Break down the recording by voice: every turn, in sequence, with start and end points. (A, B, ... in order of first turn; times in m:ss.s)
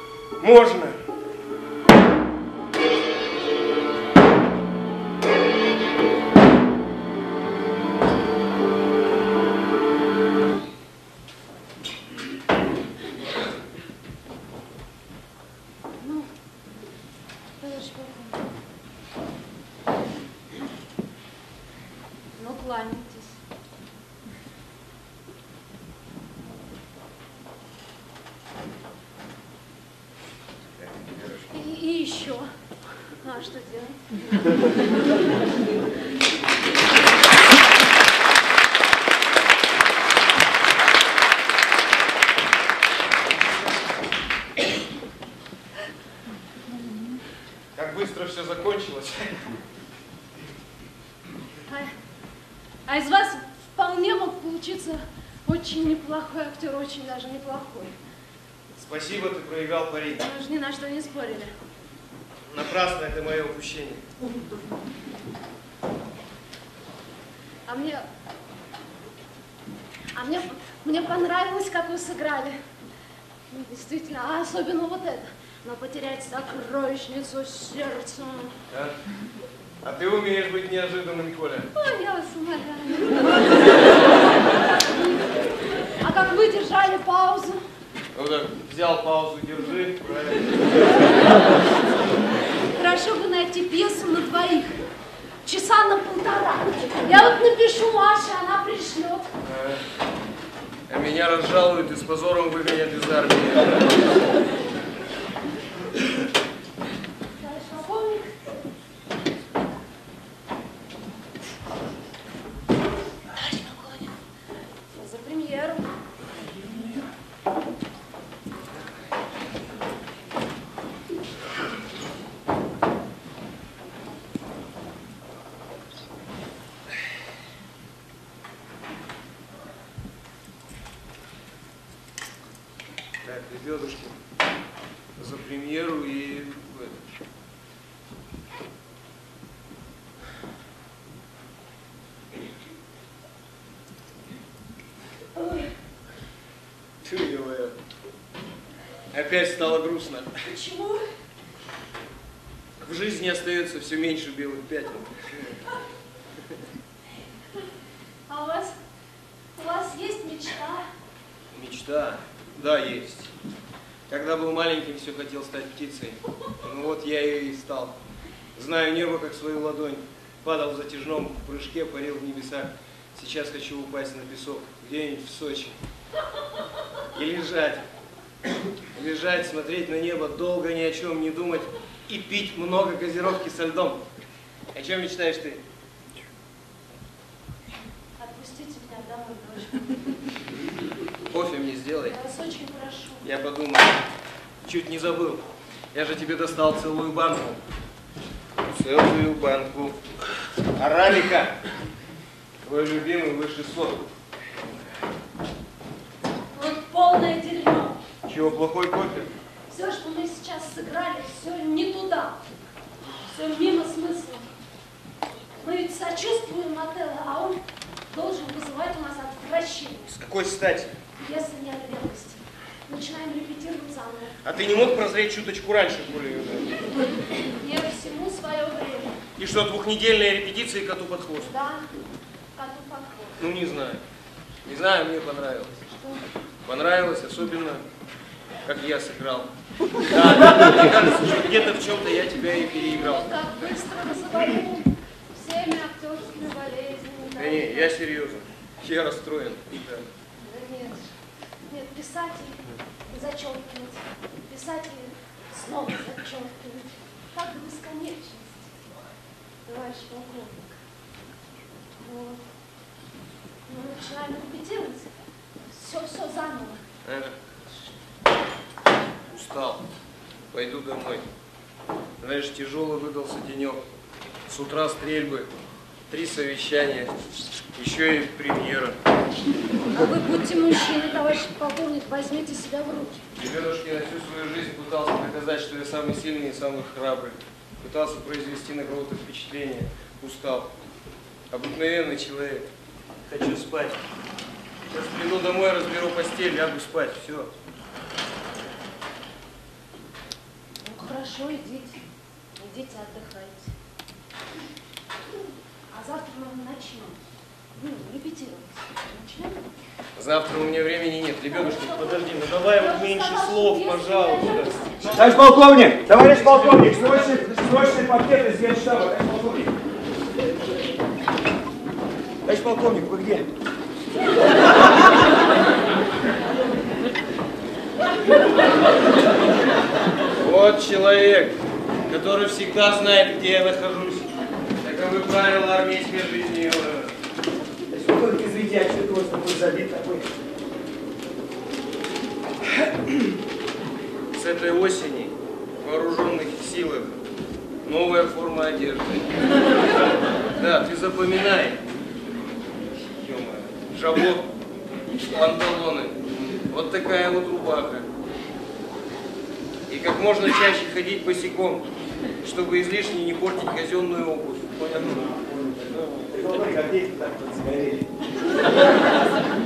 0:00.4-0:01.0 A
0:16.0-0:16.3 B
0:17.6-0:18.4 B
0:22.4-0:23.4 B
0:31.5-0:32.5 B
0:33.2-0:34.2 B
0:47.8-0:49.5 A
0:51.7-0:51.9 B
0:52.9-0:58.0 B
0:58.8-1:00.2 A
1:00.2-1:01.5 B
1:02.5-1:04.0 A
1:07.7-1:08.0 B
1:10.1-1:12.6 B
1:13.5-1:18.6 B
1:19.8-1:21.7 A
1:21.8-1:23.6 B
1:24.6-1:25.0 B
1:26.0-1:27.6 B
1:28.1-1:31.1 A
1:32.7-1:34.8 B
1:35.4-1:39.3 B
1:39.4-1:39.8 A
1:40.9-1:44.0 A
1:47.4-1:48.6 B
1:54.9-1:55.9 B
2:13.2-2:14.2 A
2:15.2-2:17.0 A
2:25.3-2:25.7 B
2:27.0-2:27.8 A
2:29.1-2:30.5 A
2:30.4-2:31.1 B
2:32.8-2:35.6 A
2:38.3-2:38.8 B
2:39.6-2:40.9 B
2:41.5-2:43.3 A
2:44.1-2:48.0 A
2:48.6-2:55.8 A
2:57.1-2:57.8 A
2:58.9-3:04.0 A
3:04.7-3:05.6 A
3:08.2-3:10.1 B
3:11.3-3:12.2 A
3:12.1-3:13.2 B
3:13.2-3:14.0 A
3:14.6-3:17.6 A
3:18.6-3:20.0 A
3:20.8-3:21.6 A
3:22.6-3:24.1 A
3:26.5-3:28.0 B
3:28.2-3:29.3 A
3:29.7-3:32.4 B
3:33.0-3:34.5 B
3:35.6-3:37.6 B
3:38.1-3:40.1 B
3:40.1-3:41.0 A
3:41.2-3:44.4 B
3:44.4-3:46.8 A
3:47.4-3:49.2 B
3:49.4-3:51.5 A
3:51.4-3:51.9 B
3:52.6-3:53.4 B
3:53.4-3:54.0 A
3:54.6-3:55.8 A
3:55.9-3:56.2 B
3:56.6-3:57.8 A
3:58.6-3:59.5 A
4:00.0-4:03.4 A
4:03.0-4:08.0 B
4:07.4-4:10.1 A
4:10.4-4:11.2 B
4:11.7-4:18.8 B
4:19.7-4:20.8 B
4:22.0-4:22.4 B
4:23.7-4:25.1 B
4:25.7-4:26.8 B
4:27.0-4:27.4 A
4:29.3-4:29.8 A
4:30.5-4:31.3 A
4:32.2-4:33.8 A
4:34.5-4:35.5 A
4:36.1-4:37.1 A
4:37.8-4:39.0 A
4:39.9-4:43.2 B
4:43.4-4:50.7 A
4:51.5-4:52.7 A
4:53.3-4:54.0 A
4:54.9-4:57.5 A
5:00.8-5:02.0 B
5:02.6-5:03.7 B
5:05.9-5:07.2 B
5:07.8-5:09.6 B
5:10.2-5:14.8 A
5:11.5-5:15.4 B
5:15.1-5:19.7 C
5:22.4-5:23.5 C
5:30.4-5:37.1 A
5:37.9-5:40.3 C
5:44.3-5:47.2 A
5:47.8-5:49.4 A
5:50.5-5:51.8 A
5:53.1-5:54.5 A
5:55.2-5:58.1 A
5:59.9-6:05.3 A
6:05.0-6:08.1 C